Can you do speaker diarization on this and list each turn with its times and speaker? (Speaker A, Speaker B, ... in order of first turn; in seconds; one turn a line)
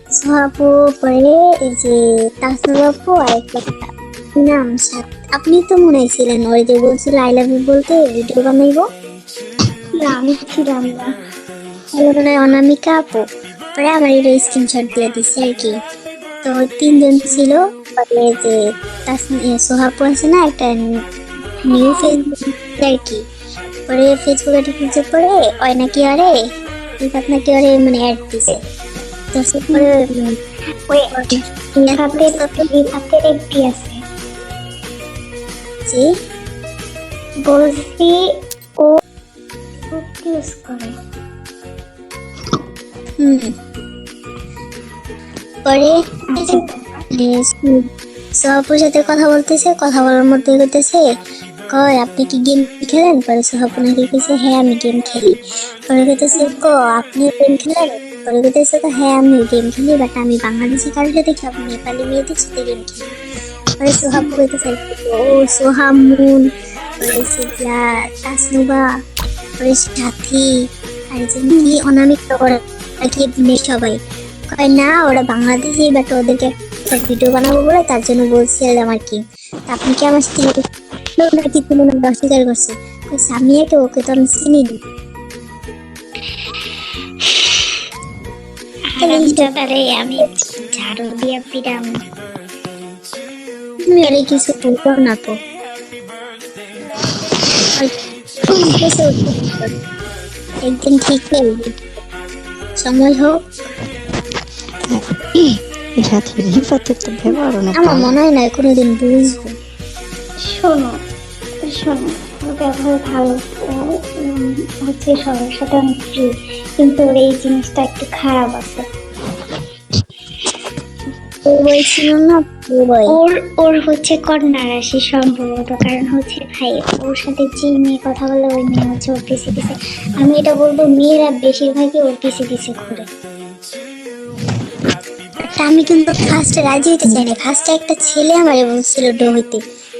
Speaker A: 0.1-8.9
Speaker B: 9.9-11.1
Speaker A: 11.9-13.2
Speaker A: 13.8-15.8
Speaker A: 16.4-21.0
Speaker A: 21.7-23.2
Speaker B: 21.8-22.1
Speaker A: 23.9-26.3
Speaker A: 27.0-28.6
Speaker A: 29.3-30.4
Speaker B: 30.9-31.1
Speaker A: 31.1-32.6
Speaker B: 31.8-34.0
Speaker B: 37.4-39.0
Speaker B: 39.8-41.0
Speaker A: 43.2-43.5
Speaker A: 45.6-47.8
Speaker B: 46.3-47.0
Speaker A: 48.4-51.0
Speaker A: 51.7-55.3
Speaker A: 55.9-63.1
Speaker A: 63.8-66.5
Speaker A: 67.0-68.8
Speaker A: 69.6-70.5
Speaker A: 71.1-74.0
Speaker A: 74.5-80.6
Speaker A: 81.2-84.8
Speaker B: 88.9-92.0
Speaker A: 89.0-89.5
Speaker A: 93.9-95.3
Speaker A: 98.7-99.7
Speaker A: 100.6-101.7
Speaker A: 102.8-103.3
Speaker C: 104.9-108.1
Speaker A: 107.7-109.5
Speaker B: 110.4-111.0
Speaker B: 111.7-118.8
Speaker A: 121.5-123.2
Speaker B: 123.1-133.1
Speaker A: 135.5-139.6